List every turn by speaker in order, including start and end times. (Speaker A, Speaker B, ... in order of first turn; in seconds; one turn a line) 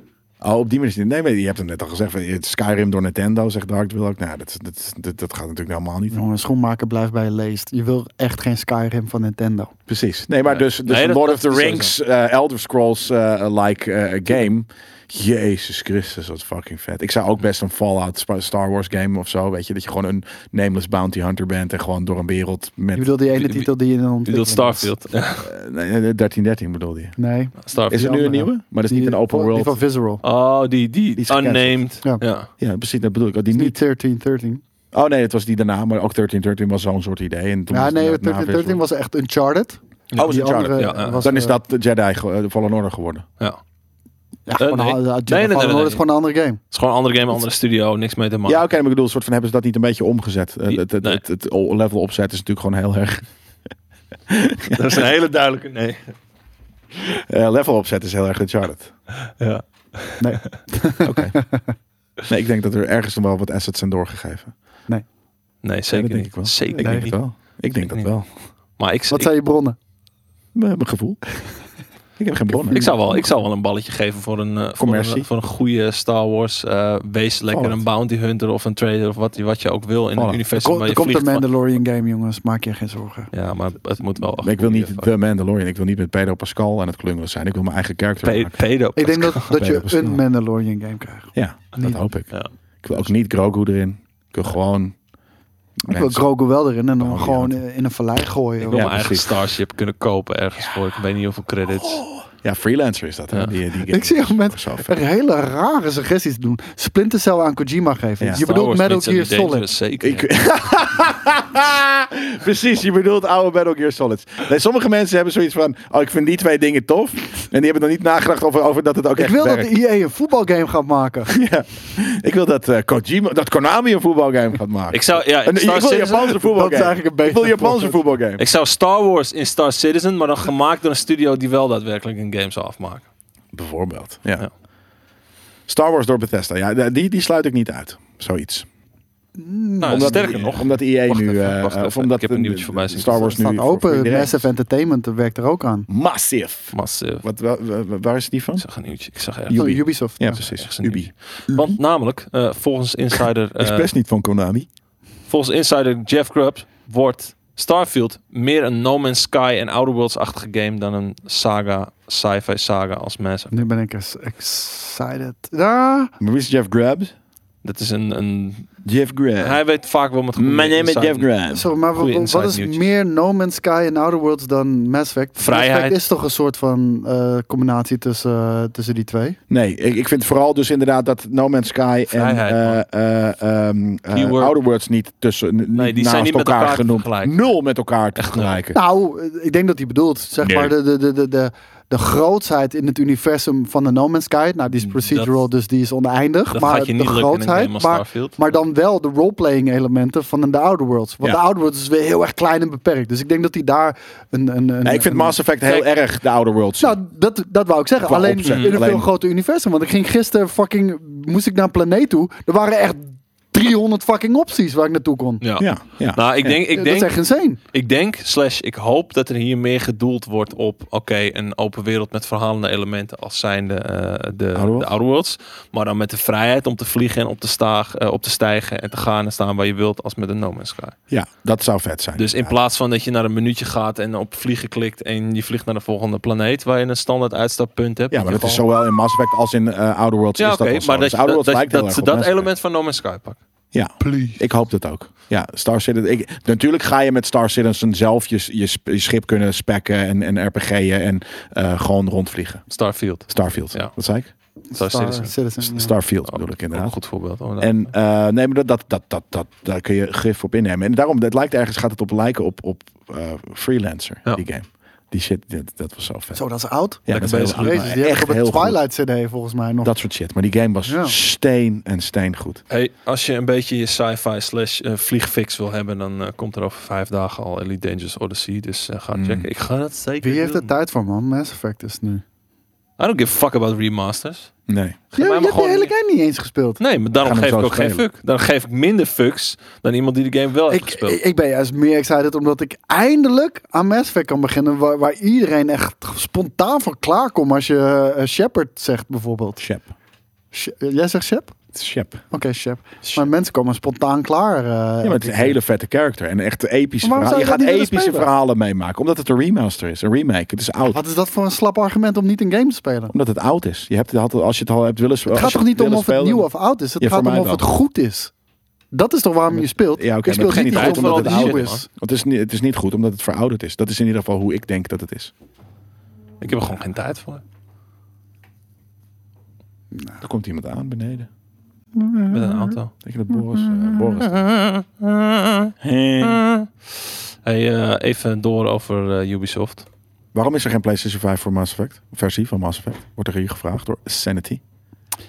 Speaker A: 0.4-6.2
Speaker B: 6.1-9.7
Speaker A: 9.9-23.1
Speaker C: 10.4-11.9
Speaker B: 22.9-24.9
Speaker C: 23.4-23.7
Speaker C: 24.2-25.5
Speaker A: 25.4-27.1
Speaker B: 27.2-30.2
Speaker C: 27.6-28.1
Speaker A: 27.9-29.8
Speaker C: 30.2-32.5
Speaker A: 31.2-31.8
Speaker A: 32.6-33.8
Speaker B: 33.5-34.6
Speaker A: 34.9-38.8
Speaker B: 37.7-41.6
Speaker C: 40.1-41.2
Speaker A: 40.1-43.2
Speaker B: 44.5-46.6
Speaker C: 44.6-46.0
Speaker C: 46.7-48.6
Speaker A: 48.5-53.2
Speaker C: 50.7-51.2
Speaker A: 54.3-55.0
Speaker C: 54.7-56.1
Speaker A: 57.0-58.9
Speaker C: 59.3-60.5
Speaker B: 60.2-61.7
Speaker A: 61.0-61.4
Speaker A: 62.3-64.5
Speaker C: 65.6-67.2
Speaker A: 65.9-68.3
Speaker B: 66.8-67.1
Speaker C: 68.8-69.3
Speaker B: 69.1-69.8
Speaker A: 70.5-71.2
Speaker A: 72.2-72.8
Speaker B: 72.6-73.2
Speaker C: 72.7-81.4
Speaker A: 74.8-75.3
Speaker A: 77.5-77.8
Speaker A: 80.2-80.4
Speaker B: 80.5-83.3
Speaker C: 83.3-85.1
Speaker A: 84.4-88.6
Speaker C: 88.2-89.5
Speaker B: 89.0-92.0
Speaker A: 89.3-90.2
Speaker A: 91.3-95.0
Speaker A: 95.8-96.2
Speaker B: 95.9-98.9
Speaker A: 97.0-97.6
Speaker C: 98.6-102.0
Speaker A: 98.7-99.3
Speaker A: 101.7-104.9
Speaker B: 103.9-109.7
Speaker C: 108.3-110.3
Speaker A: 110.0-119.7
Speaker B: 119.2-121.3
Speaker A: 121.3-128.4
Speaker C: 124.9-126.3
Speaker B: 126.2-128.0
Speaker C: 128.4-133.0
Speaker A: 133.5-134.4
Speaker A: 135.7-138.7
Speaker B: 139.4-140.3
Speaker C: 139.8-143.3
Speaker A: 139.8-144.4
Speaker B: 143.1-145.9
Speaker A: 145.9-148.6
Speaker C: 146.7-147.2
Speaker C: 148.6-149.8
Speaker A: 149.5-151.8
Speaker B: 149.5-150.4
Speaker C: 150.3-153.9
Speaker A: 153.6-154.7
Speaker C: 155.3-163.6
Speaker B: 163.5-166.1
Speaker A: 166.2-167.1
Speaker C: 167.6-168.7
Speaker A: 168.8-169.6
Speaker C: 169.4-171.3
Speaker A: 170.3-171.7
Speaker B: 171.5-179.4
Speaker C: 171.9-172.9
Speaker C: 175.3-176.0
Speaker A: 179.5-188.8
Speaker C: 182.1-182.8
Speaker C: 184.1-184.5
Speaker C: 185.7-187.5
Speaker C: 188.2-188.6
Speaker B: 188.7-205.4
Speaker A: 190.4-190.7
Speaker C: 194.8-195.4
Speaker C: 196.5-198.3
Speaker A: 204.8-207.0
Speaker B: 206.8-215.4
Speaker A: 208.0-209.1
Speaker C: 208.4-208.8
Speaker C: 215.4-230.9
Speaker A: 215.6-216.6
Speaker B: 216.7-217.6
Speaker A: 224.5-224.9
Speaker A: 231.1-232.5
Speaker C: 232.2-238.6
Speaker A: 238.1-242.5
Speaker C: 240.4-243.4
Speaker A: 243.7-252.6
Speaker B: 244.0-244.4
Speaker C: 252.7-253.9
Speaker A: 253.3-254.3
Speaker B: 254.7-255.9
Speaker C: 254.8-255.3
Speaker A: 255.6-256.9
Speaker C: 256.3-257.9
Speaker A: 257.6-266.4
Speaker B: 266.3-269.9
Speaker A: 267.1-268.8
Speaker C: 267.1-267.9
Speaker A: 269.8-272.6
Speaker B: 270.8-271.1
Speaker C: 272.7-280.7
Speaker A: 279.1-279.5
Speaker B: 280.2-282.2
Speaker C: 283.0-284.5
Speaker A: 284.7-285.0
Speaker C: 285.1-285.9
Speaker B: 285.2-286.8
Speaker C: 286.8-291.2
Speaker A: 287.1-288.0
Speaker B: 290.7-299.6
Speaker A: 299.6-299.9
Speaker B: 300.5-301.6
Speaker A: 301.7-302.2
Speaker B: 302.3-305.6
Speaker A: 305.0-311.0
Speaker B: 307.0-308.3
Speaker B: 310.9-313.1
Speaker A: 313.1-316.5
Speaker B: 315.3-318.3
Speaker A: 317.0-317.7
Speaker B: 318.9-321.9
Speaker A: 319.5-325.3
Speaker C: 320.3-321.8
Speaker C: 326.4-327.4
Speaker A: 330.2-331.3
Speaker B: 331.9-332.8
Speaker C: 332.3-332.9
Speaker A: 333.0-334.5
Speaker C: 334.2-336.7
Speaker A: 335.8-336.4
Speaker C: 337.4-339.9
Speaker A: 340.3-344.6